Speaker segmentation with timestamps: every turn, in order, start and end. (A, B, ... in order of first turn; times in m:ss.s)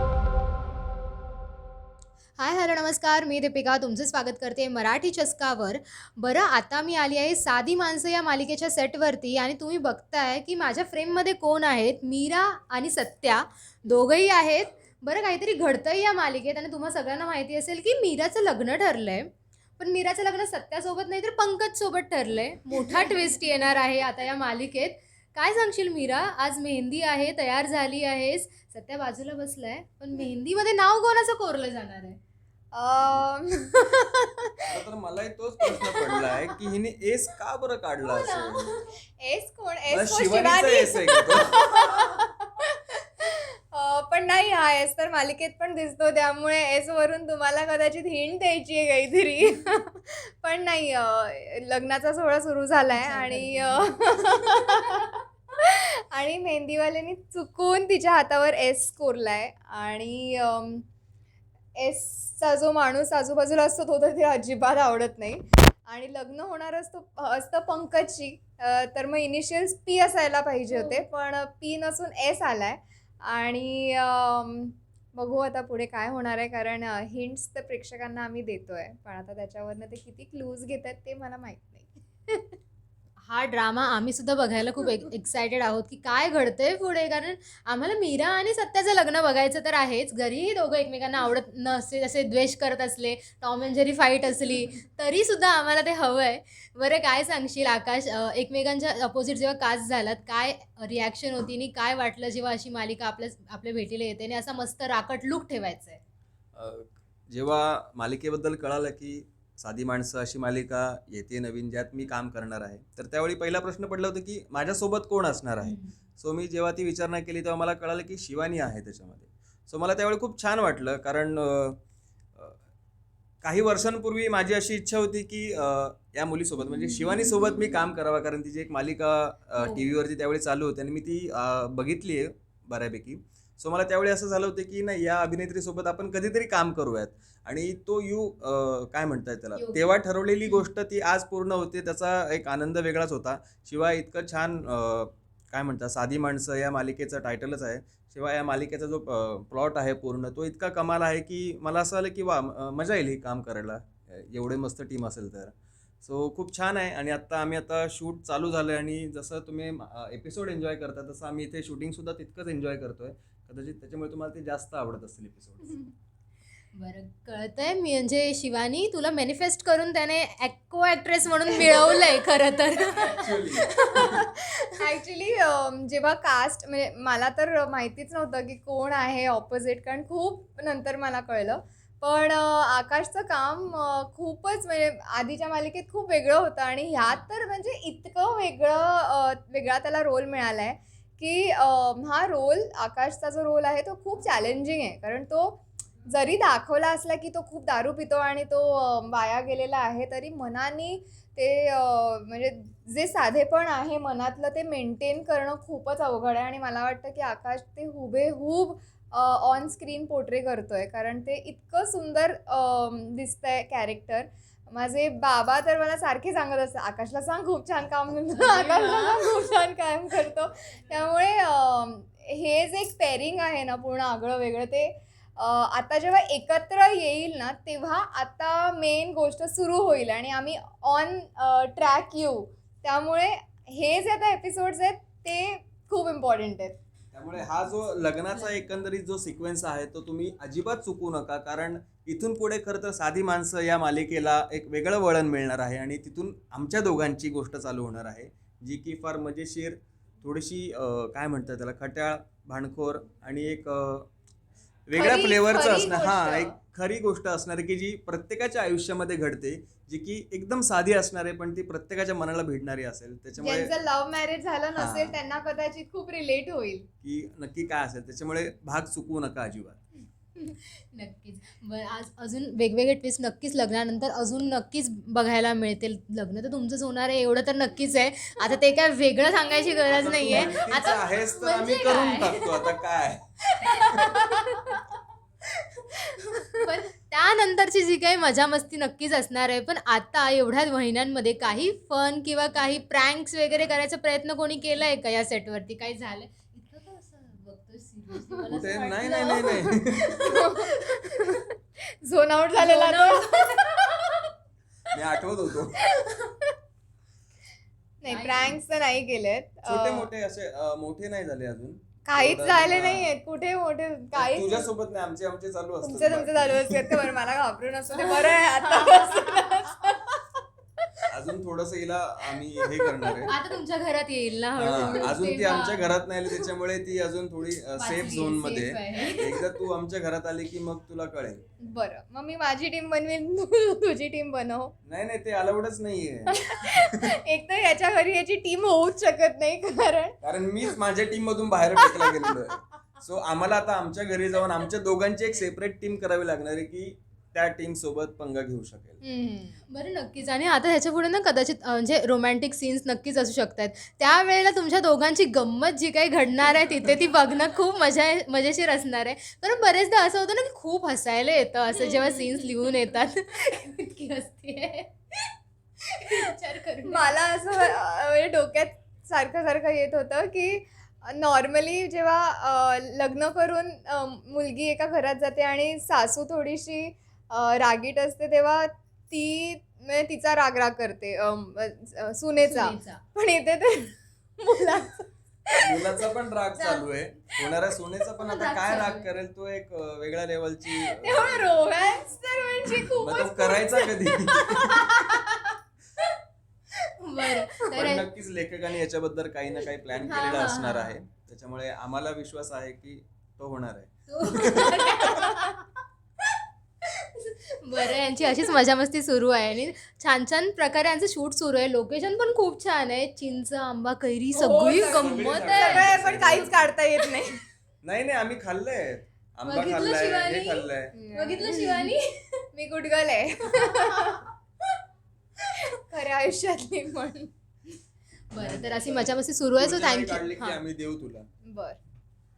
0:02.4-0:32.2 A
0:22.7-0:23.4 B
0:32.7-0:34.3 B
0:34.7-0:38.8 C
0:35.8-0:36.1 B
0:38.0-0:38.9 A
0:39.2-1:00.9 B
0:39.9-0:41.6 C
0:52.9-0:55.0 A
1:01.8-1:22.4 B
1:10.7-1:11.0 A
1:23.3-1:46.0 A
1:24.8-1:25.0 B
1:46.6-2:01.8 C
1:55.6-1:55.9 A
2:03.4-2:45.8 C
2:06.9-2:07.6 A
2:09.6-2:09.8 A
2:19.6-2:19.8 A
2:46.7-2:54.8 A
2:51.5-2:52.2 B
2:52.8-2:54.2 C
2:53.7-3:56.8 B
3:38.3-3:39.5 A
3:57.1-4:14.1 C
4:14.9-4:23.7 C
4:15.0-4:16.6 B
4:23.4-4:26.9 B
4:24.8-4:25.2 C
4:27.0-4:29.8 C
4:30.4-4:42.8 A
4:39.9-4:44.1 C
4:43.6-4:44.8 B
4:43.6-4:44.9 A
4:45.8-4:46.8 B
4:46.6-5:01.2 A
4:58.5-5:00.1 C
5:00.2-5:04.2 B
5:02.6-5:03.6 A
5:04.9-5:05.8 C
5:05.8-5:06.5 B
5:08.0-5:10.1 B
5:08.1-5:08.6 A
5:09.7-5:13.1 C
5:12.1-5:14.7 B
5:14.1-5:17.1 C
5:15.8-5:20.2 B
5:18.0-5:19.6 A
5:21.1-5:23.3 C
5:22.6-5:23.4 B
5:23.3-5:26.0 A
5:24.6-5:31.4 C
5:27.8-5:29.4 A
5:31.6-5:34.7 B
5:34.8-5:36.8 C
5:36.3-5:40.8 B
5:40.2-5:49.0 C
5:41.8-5:42.3 B
5:49.0-5:49.6 B
5:49.7-6:07.2 A
6:01.8-6:02.7 B
6:06.9-6:26.9 B
6:22.4-6:23.0 A
6:25.6-6:31.6 C
6:27.4-6:28.1 B
6:28.2-6:29.1 A
6:30.7-6:35.3 B
6:33.0-6:34.9 C
6:34.9-6:35.4 A
6:36.9-6:38.1 A
6:37.7-6:45.2 C
6:39.9-6:40.9 A
6:44.1-6:45.6 A
6:46.8-6:56.4 A
6:54.4-6:54.7 B
6:54.5-6:56.6 C
6:55.4-6:57.4 B
6:57.8-7:00.9 C
6:59.4-7:02.4 A
7:00.9-7:01.9 B
7:02.6-7:04.3 B
7:03.5-7:04.2 A
7:05.5-7:07.3 B
7:08.3-7:10.6 A
7:08.4-7:11.3 C
7:11.4-7:11.8 B